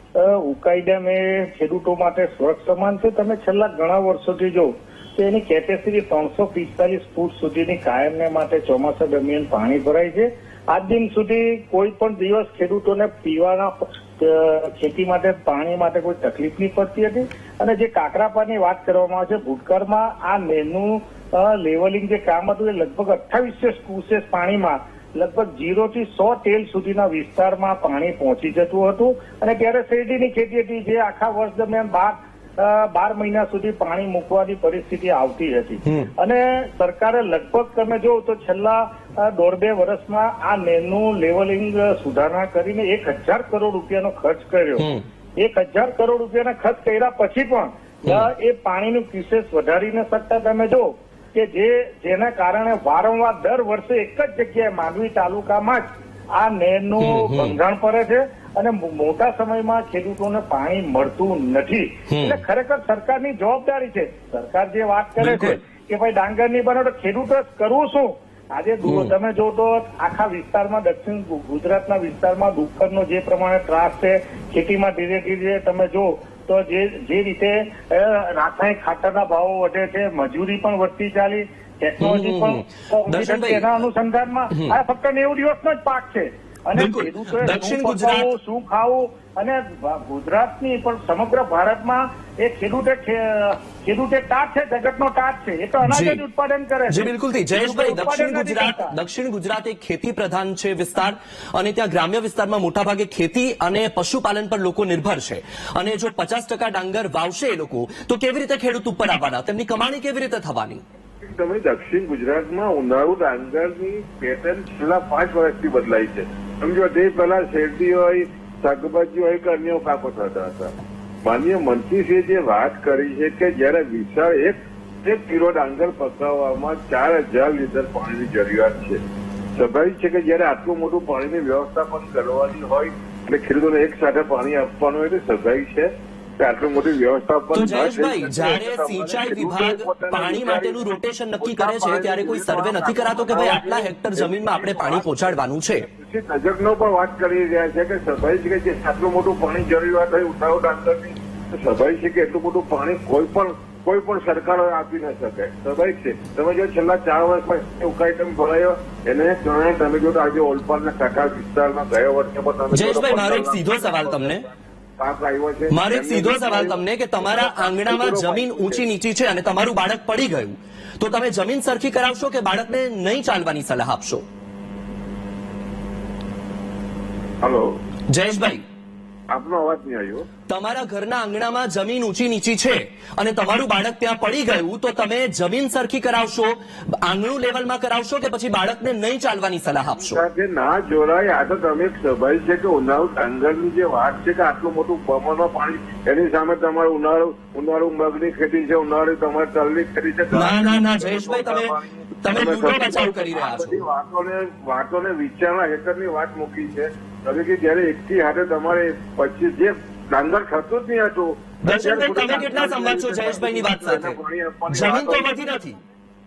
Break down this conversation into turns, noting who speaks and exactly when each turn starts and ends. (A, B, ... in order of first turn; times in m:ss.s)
0:00.2-1:38.9 A
0:57.0-0:57.6 B
1:02.1-1:02.4 B
1:05.2-1:05.6 B
1:08.8-1:09.1 B
1:22.0-1:23.8 B
1:26.8-1:28.3 B
1:35.8-1:36.2 B
1:36.9-1:50.8 B
1:51.2-2:00.7 C
2:01.2-2:09.0 C
2:09.6-2:44.4 C
2:17.5-2:25.8 B
2:42.7-2:44.4 B
2:45.0-2:48.8 C
2:45.7-2:54.2 B
2:57.4-2:57.7 C
2:58.1-2:58.6 B
2:59.3-3:00.3 C
3:00.5-3:10.2 B
3:10.0-3:35.3 C
3:20.3-3:23.8 B
3:31.6-3:34.2 B
3:34.7-3:35.8 B